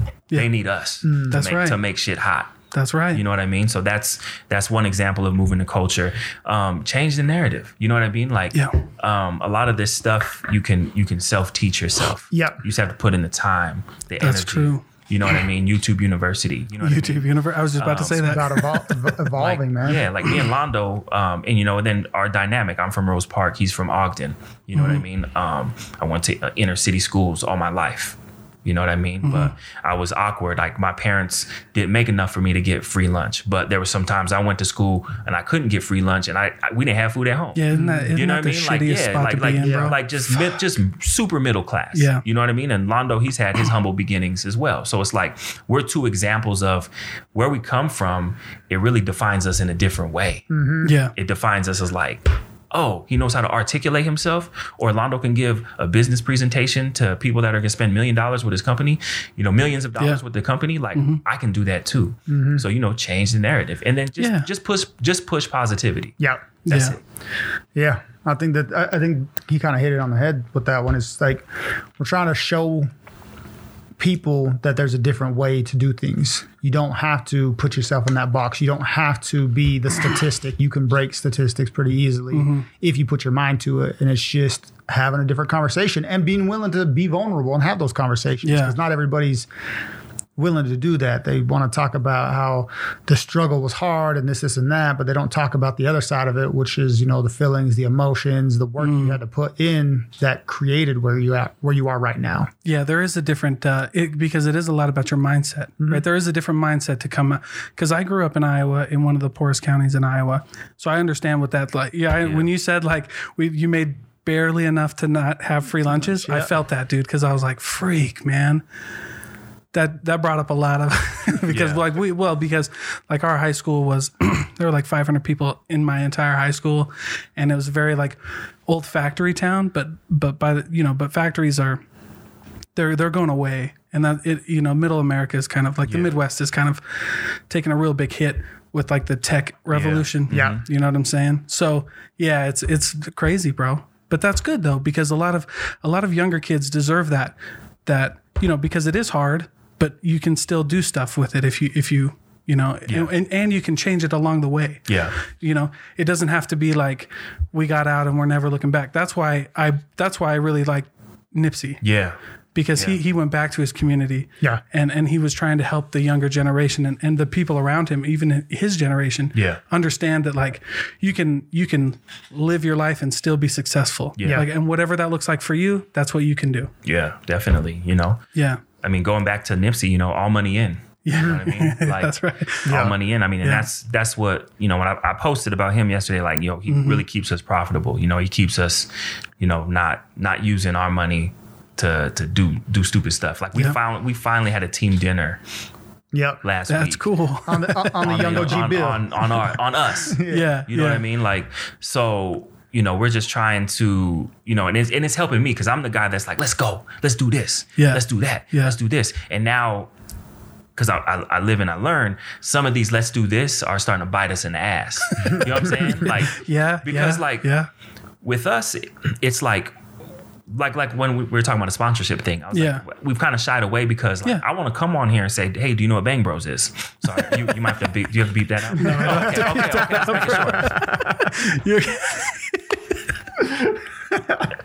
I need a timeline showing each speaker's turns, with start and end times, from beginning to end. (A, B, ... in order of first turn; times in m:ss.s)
0:00.3-0:02.5 A
0:01.0-0:01.4 B
0:01.3-0:01.8 C
0:02.7-0:03.2 C
0:03.1-0:18.5 A
0:08.5-0:08.8 C
0:12.3-0:12.6 B
0:14.2-0:14.8 C
0:16.8-0:19.1 C
0:18.2-0:20.1 B
0:19.4-0:50.5 A
0:24.8-0:25.0 C
0:29.2-0:29.5 C
0:37.6-0:40.0 C
0:37.7-0:38.1 B
0:39.6-0:40.0 B
0:41.9-0:42.2 C
0:50.5-0:51.0 B
0:50.8-0:51.1 C
0:51.1-1:07.0 A
1:01.0-1:01.2 C
1:02.3-1:02.6 B
1:04.2-1:04.5 C
1:06.2-1:06.5 B
1:06.7-1:07.0 C
1:07.8-1:12.9 B
1:14.0-1:29.5 B
1:22.3-1:22.7 C
1:28.4-1:28.8 C
1:30.4-1:42.5 B
1:38.8-1:39.2 C
1:42.6-1:58.6 C
1:52.2-1:52.5 A
1:56.1-1:56.5 B
1:59.7-2:11.8 C
2:01.5-2:01.8 A
2:12.8-2:41.8 C
2:15.9-2:16.2 A
2:19.7-2:20.6 A
2:20.3-2:20.6 B
2:34.9-2:35.1 A
2:41.8-2:42.2 A
2:42.5-2:56.7 C
2:49.4-2:49.6 A
2:54.2-2:54.4 A
2:56.8-2:58.2 A
2:58.4-2:58.6 C
2:58.8-3:15.4 A
3:01.0-3:02.8 C
3:02.6-3:03.0 B
3:06.7-3:07.0 C
3:16.1-3:16.4 B
3:16.4-3:17.0 A
3:16.7-3:18.0 C
3:17.5-3:19.4 B
3:18.0-3:29.9 A
3:20.0-3:20.5 B
3:20.3-3:21.0 C
3:27.8-3:28.8 C
3:30.8-3:37.5 A
3:35.0-3:37.7 C
3:38.2-3:39.7 A
3:40.5-3:51.2 A
3:42.5-3:42.8 C
3:48.8-3:53.0 C
3:48.9-3:49.6 B
3:50.4-3:50.7 B
3:54.1-3:54.5 B